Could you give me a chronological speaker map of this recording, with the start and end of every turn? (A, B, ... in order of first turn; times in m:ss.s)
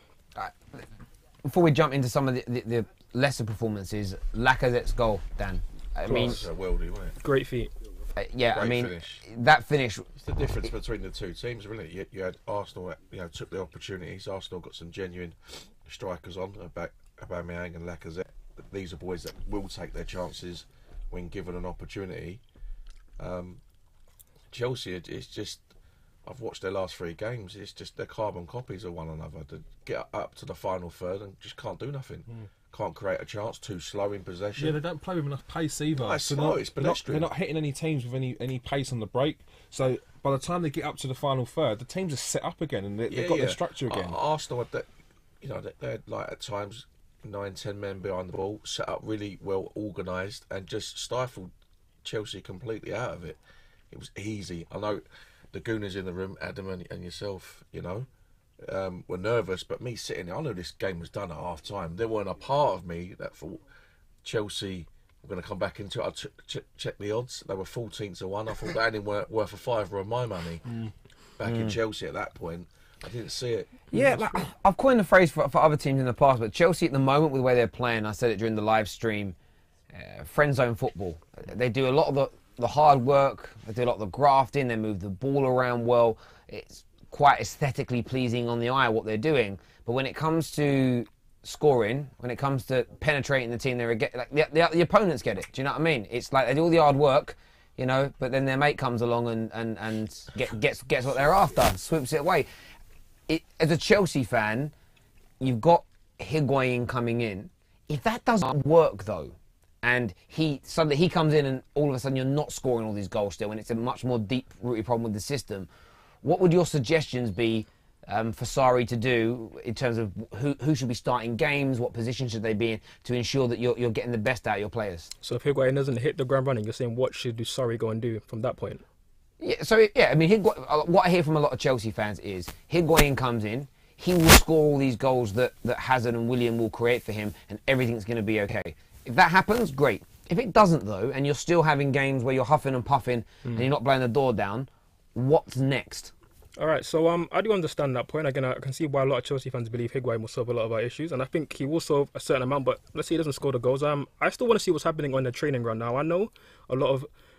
0:00.4-0:00.8 A
0:01.4-0:06.4 A
0:06.0-0:06.4 B
0:06.2-0:07.2 C
0:07.2-0:07.7 B
0:08.2-0:10.1 A
0:08.5-0:09.2 C
0:10.2-0:22.4 C
0:23.2-0:23.6 C
0:24.5-0:25.7 C
0:26.2-0:34.8 C
0:34.6-0:44.2 D
0:35.9-0:37.3 C
0:43.1-0:44.9 C
0:45.4-0:51.5 C
0:52.0-0:53.4 C
0:53.9-0:58.1 C
0:58.6-1:03.6 C
1:04.2-1:10.6 C
1:10.7-1:10.9 D
1:11.4-1:13.8 C
1:11.4-1:11.8 A
1:13.9-1:19.4 A
1:14.0-1:14.3 D
1:19.9-1:42.5 A
1:43.3-1:44.7 A
1:45.4-1:55.7 A
1:56.2-2:05.1 A
2:05.2-2:08.8 B
2:09.4-2:26.1 A
2:26.6-2:37.1 B